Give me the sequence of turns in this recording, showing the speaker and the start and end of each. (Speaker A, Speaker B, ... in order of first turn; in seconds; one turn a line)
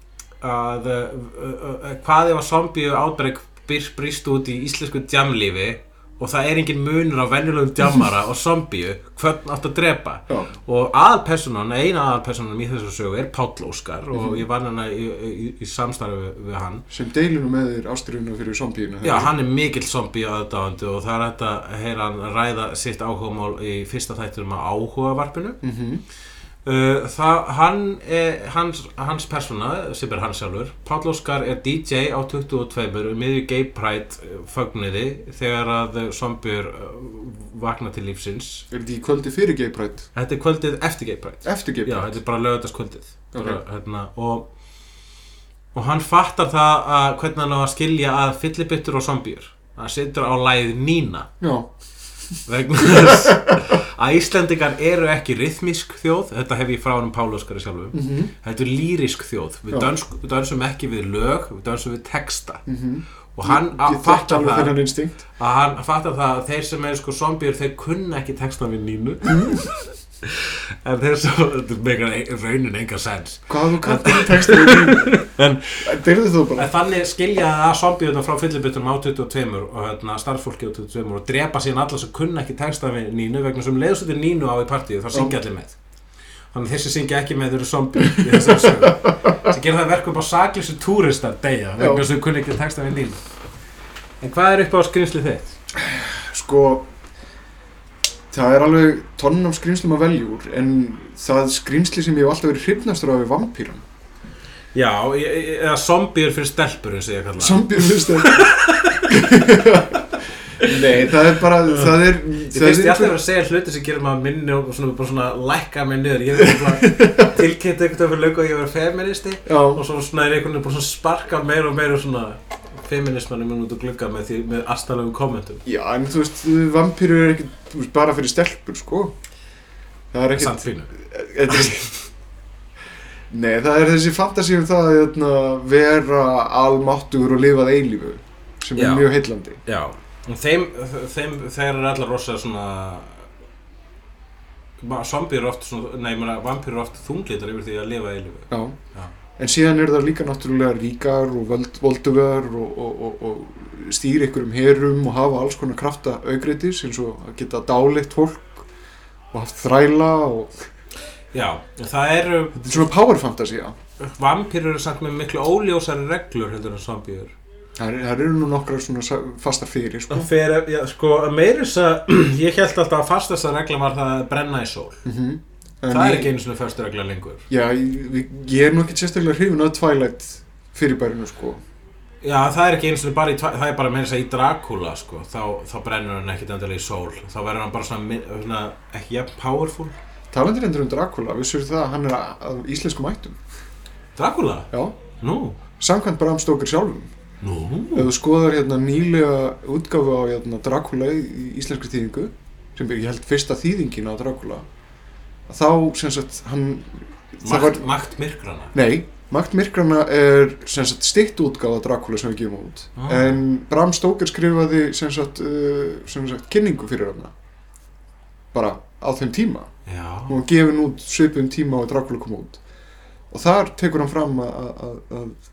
Speaker A: 0.4-16.8
Speaker B: 10.3-10.5
Speaker B: 14.1-14.4
Speaker B: 16.9-19.3
Speaker A: 19.0-25.6
Speaker B: 25.6-26.0
Speaker A: 26.6-38.6
Speaker B: 38.7-40.1
Speaker A: 40.1-44.5
Speaker B: 41.4-42.1
Speaker B: 43.3-43.6
Speaker A: 45.7-51.3
Speaker B: 51.4-51.7
Speaker A: 52.5-62.6
Speaker B: 52.8-53.8
Speaker B: 57.9-58.3
Speaker B: 62.6-65.2
Speaker A: 63.3-64.8
Speaker A: 65.3-76.0
Speaker B: 69.2-69.6
Speaker B: 73.5-75.2
Speaker B: 75.8-76.7
Speaker A: 76.5-85.8
Speaker A: 86.5-93.2
Speaker B: 88.2-89.3
Speaker B: 91.8-92.0
Speaker A: 94.2-95.5
Speaker B: 95.7-96.9
Speaker B: 98.3-103.8
Speaker A: 104.7-109.8
Speaker B: 107.4-108.5
Speaker B: 109.0-113.2
Speaker A: 110.6-125.6
Speaker B: 116.3-117.3
Speaker B: 119.5-119.8
Speaker B: 125.7-129.1
Speaker B: 130.1-131.9
Speaker A: 130.3-130.9
Speaker A: 131.5-131.8
Speaker B: 133.3-139.6
Speaker A: 138.8-139.1
Speaker A: 139.6-143.3
Speaker A: 144.8-149.1
Speaker B: 148.5-148.8
Speaker B: 149.4-158.7
Speaker B: 159.3-160.7
Speaker A: 161.3-162.9
Speaker B: 162.6-163.8
Speaker A: 164.0-167.3
Speaker B: 167.8-170.3
Speaker A: 170.1-175.0
Speaker B: 175.0-176.3
Speaker A: 175.9-177.5
Speaker B: 177.5-181.6
Speaker A: 182.2-189.9
Speaker B: 190.3-193.4
Speaker A: 194.2-195.6
Speaker B: 194.7-195.0
Speaker B: 195.8-197.1
Speaker A: 197.4-198.1
Speaker B: 197.9-204.7
Speaker B: 205.5-207.9
Speaker A: 207.4-208.7
Speaker B: 208.7-217.3
Speaker A: 212.9-213.4
Speaker B: 218.5-219.7
Speaker A: 219.8-220.4
Speaker B: 220.3-222.6
Speaker B: 223.3-225.4